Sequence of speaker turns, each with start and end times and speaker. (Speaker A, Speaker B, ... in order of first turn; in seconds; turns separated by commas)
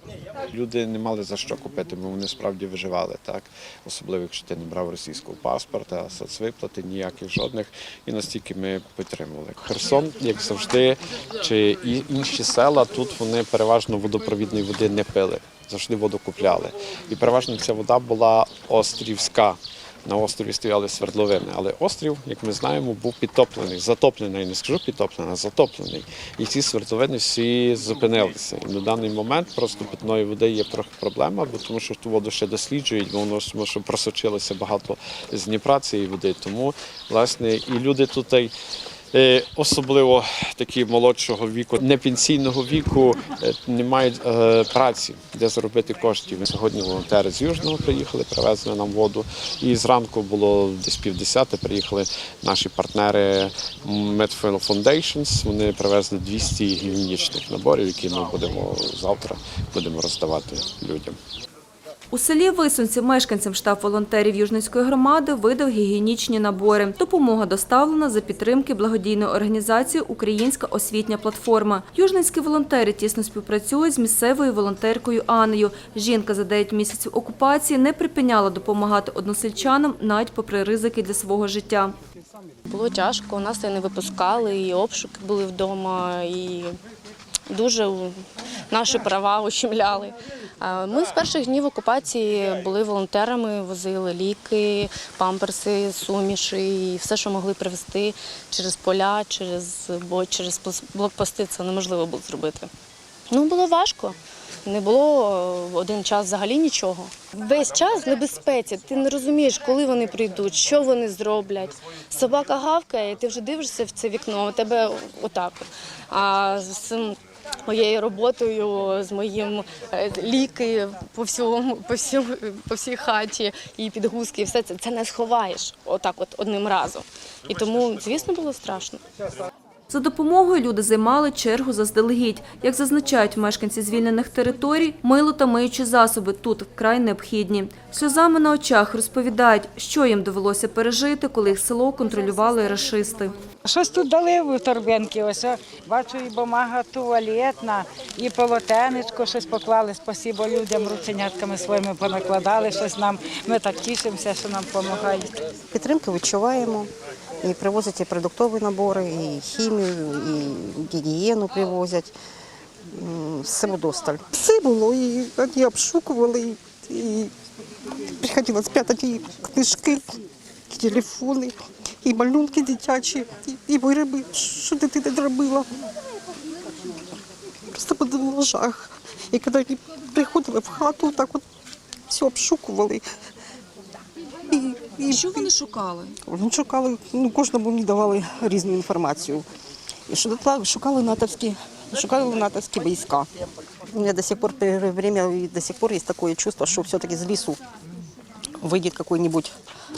Speaker A: 0.5-38.5, Speaker A: 39.1-61.2, Speaker B: 62.1-81.9, Speaker C: 82.7-86.8, Speaker C: 87.5-88.2, Speaker C: 88.7-102.7, Speaker C: 103.3-129.0, Speaker B: 129.9-143.3, Speaker D: 143.6-155.3, Speaker E: 155.7-156.9, Speaker E: 157.4-162.1, Speaker E: 162.9-167.3, Speaker E: 168.2-170.0, Speaker E: 170.7-175.7, Speaker E: 177.7-181.4, Speaker E: 182.1-183.0, Speaker E: 184.5-185.5, Speaker B: 185.1-186.2, Speaker E: 186.2-189.4, Speaker E: 190.1-193.3, Speaker E: 193.9-197.6, Speaker E: 198.6-199.5